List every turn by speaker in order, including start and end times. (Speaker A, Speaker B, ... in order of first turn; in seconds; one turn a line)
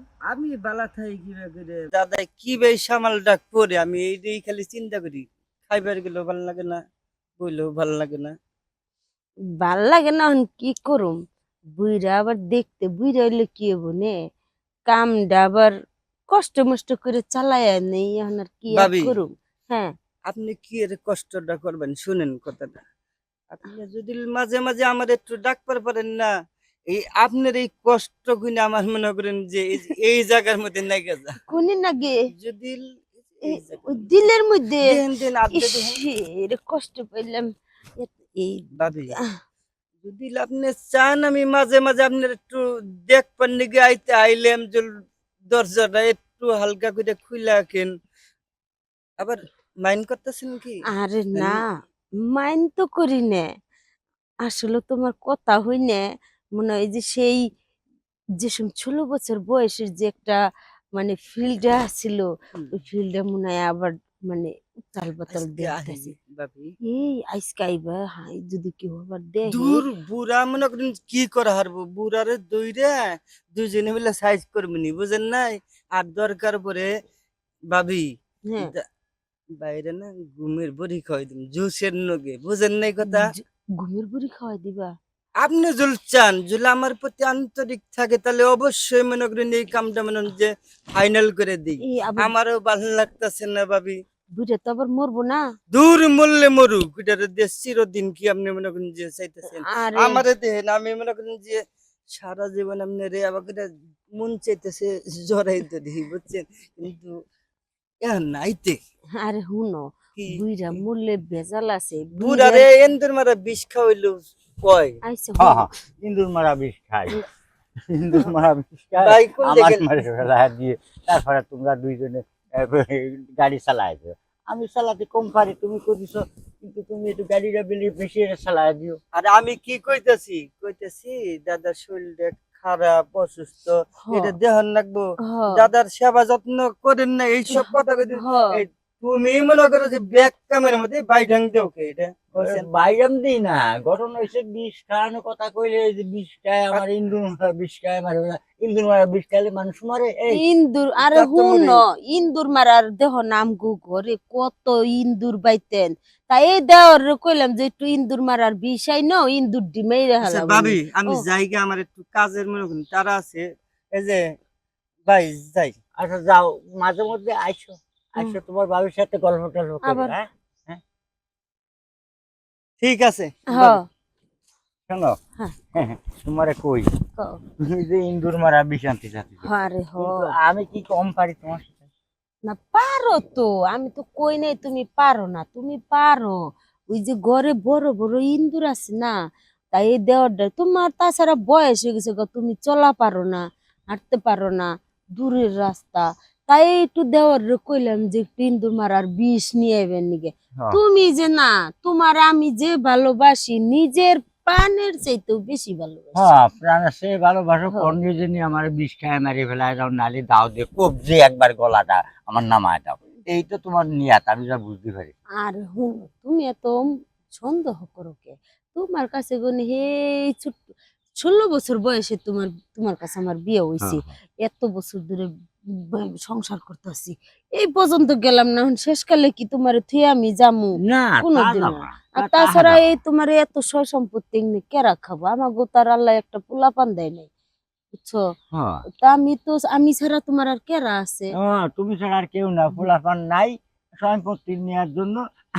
Speaker A: 0.2-6.8
Speaker A: 7.4-8.3
Speaker B: 9.6-11.2
Speaker B: 11.7-14.2
Speaker B: 14.9-15.7
Speaker B: 16.3-19.9
Speaker A: 18.7-19.2
Speaker A: 20.3-22.8
Speaker A: 23.5-26.3
Speaker A: 26.9-31.3
Speaker B: 31.5-32.2
Speaker A: 32.3-34.1
Speaker B: 33.5-35.0
Speaker A: 34.8-36.0
Speaker B: 35.5-39.2
Speaker A: 38.8-39.2
Speaker A: 40.0-47.9
Speaker A: 49.2-50.8
Speaker B: 50.9-51.7
Speaker A: 51.4-51.6
Speaker B: 52.3-53.5
Speaker B: 54.4-56.0
Speaker B: 56.5-57.4
Speaker B: 58.4-60.4
Speaker B: 60.9-66.1
Speaker A: 65.3-66.7
Speaker B: 66.8-69.8
Speaker A: 69.5-76.9
Speaker A: 77.7-78.8
Speaker A: 79.6-83.3
Speaker B: 83.0-84.9
Speaker A: 85.4-94.0
Speaker B: 91.8-92.3
Speaker B: 94.3-95.4
Speaker A: 95.7-101.6
Speaker B: 99.5-100.2
Speaker A: 102.1-107.2
Speaker A: 108.0-108.8
Speaker B: 109.2-112.7
Speaker A: 110.1-110.8
Speaker A: 112.2-115.0
Speaker B: 115.0-115.7
Speaker C: 115.4-117.2
Speaker C: 117.9-129.0
Speaker A: 119.0-119.9
Speaker A: 129.1-142.7
Speaker B: 134.0-134.3
Speaker B: 135.2-135.6
Speaker B: 137.5-138.6
Speaker C: 142.3-150.4
Speaker B: 150.3-161.2
Speaker A: 151.0-151.8
Speaker A: 160.2-164.2
Speaker A: 165.1-165.8
Speaker C: 165.9-170.8
Speaker B: 169.8-170.2
Speaker A: 172.8-173.8
Speaker B: 173.5-173.8
Speaker C: 174.9-175.2
Speaker C: 175.7-176.9
Speaker C: 177.6-181.9
Speaker B: 179.4-180.3
Speaker B: 182.5-189.1
Speaker B: 189.7-206.3
Speaker C: 206.1-215.1
Speaker B: 215.4-220.6
Speaker B: 221.2-237.3
Speaker C: 223.8-224.1
Speaker C: 230.8-232.8
Speaker B: 237.9-238.2
Speaker C: 238.5-238.8
Speaker B: 239.0-241.3
Speaker C: 241.4-245.2